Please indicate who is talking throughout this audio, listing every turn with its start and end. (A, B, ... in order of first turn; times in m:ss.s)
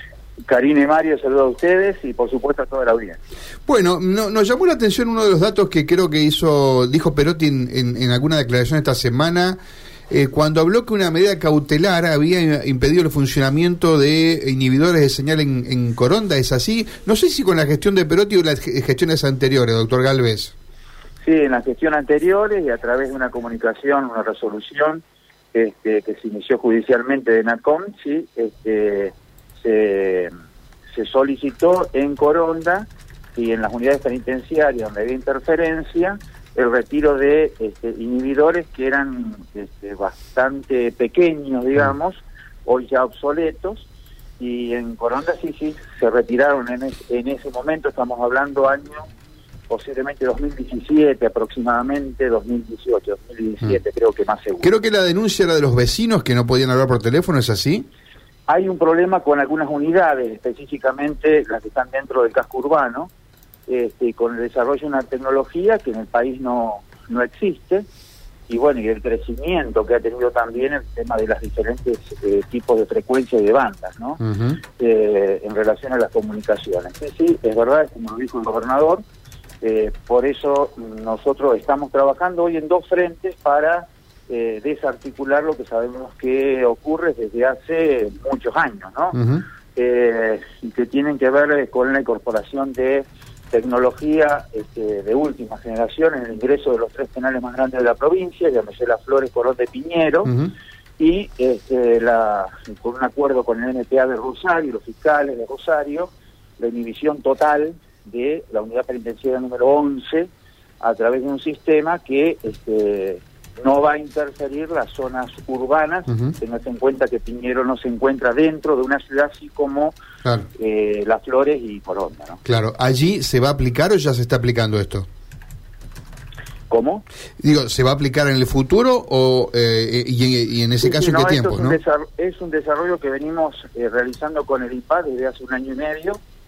0:00.5-0:03.2 A
0:03.6-0:09.6 B
0:10.1-0:20.5 B
0:21.2-0:30.3 A
0:30.9-0:43.9 A
0:44.4-0:49.1 A
0:49.7-0:54.7 A
0:54.6-0:57.9 B
0:58.5-1:03.1 A
1:03.7-1:07.8 A
1:08.5-1:14.2 A
1:14.2-1:14.6 B
1:14.8-1:19.0 A
1:19.6-1:29.2 A
1:29.2-1:29.4 B
1:29.7-1:40.4 A
1:41.0-2:00.0 A
2:00.5-2:02.4 A
2:02.4-2:05.1 B
2:06.7-2:07.0 A
2:07.4-2:11.8 B
2:10.8-2:16.2 A